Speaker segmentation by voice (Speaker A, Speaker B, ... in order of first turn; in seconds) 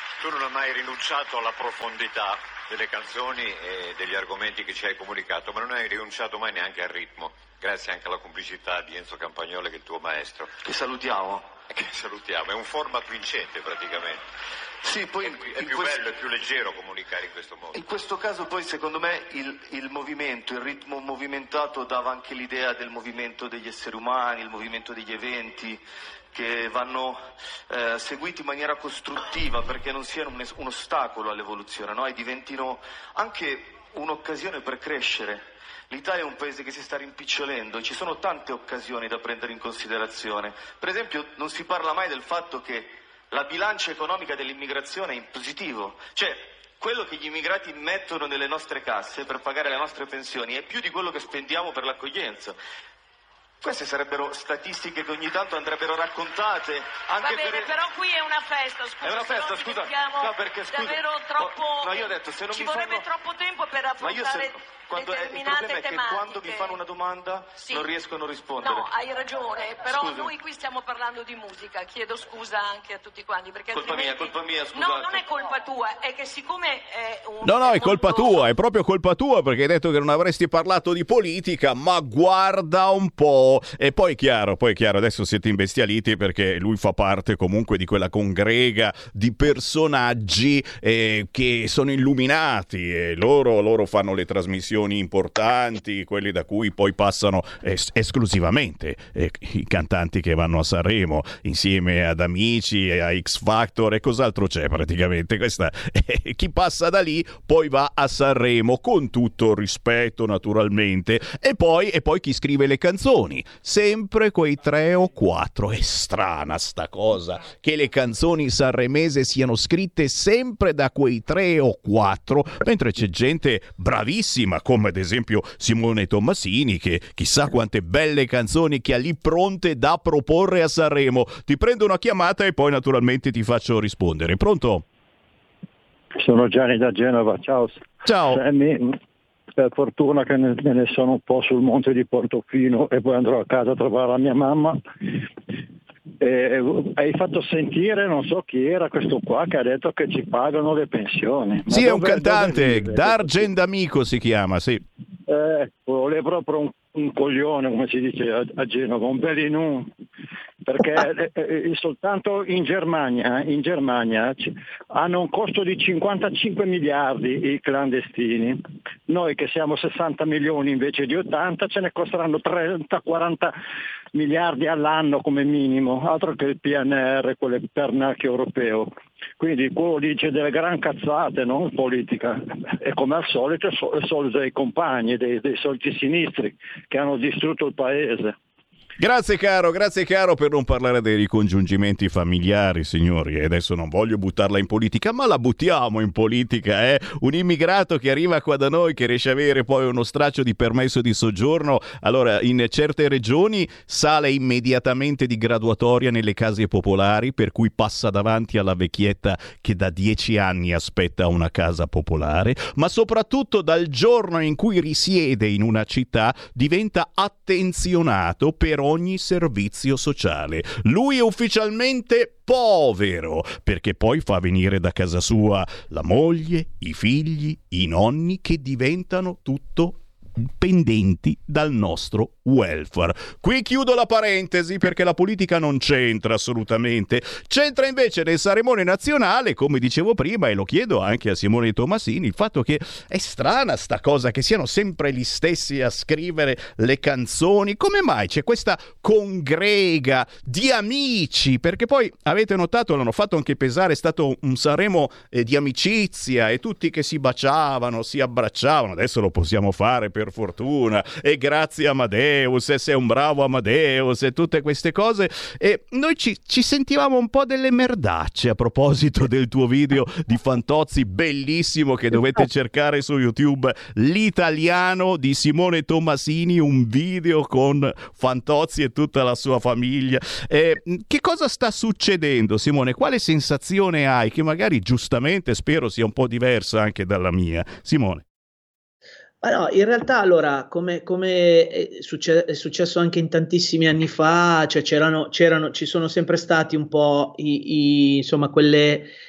Speaker A: 0.2-10.5, 11.7-14.2, 15.1-17.8
Speaker B: 10.6-11.5, 14.9-16.2, 17.7-25.8, 26.3-52.6, 53.6-57.9, 59.0-63.1, 64.0-68.9, 69.9-70.4, 73.7-75.6
Speaker C: 57.2-66.8, 67.6-68.0, 68.6-78.5
Speaker D: 77.4-134.8, 138.1-138.4, 151.7-154.8, 189.0-288.2
Speaker E: 136.2-139.0, 139.6-144.8, 146.2-153.5, 155.3-159.9, 160.7-173.6, 174.1-188.4
Speaker F: 289.4-299.1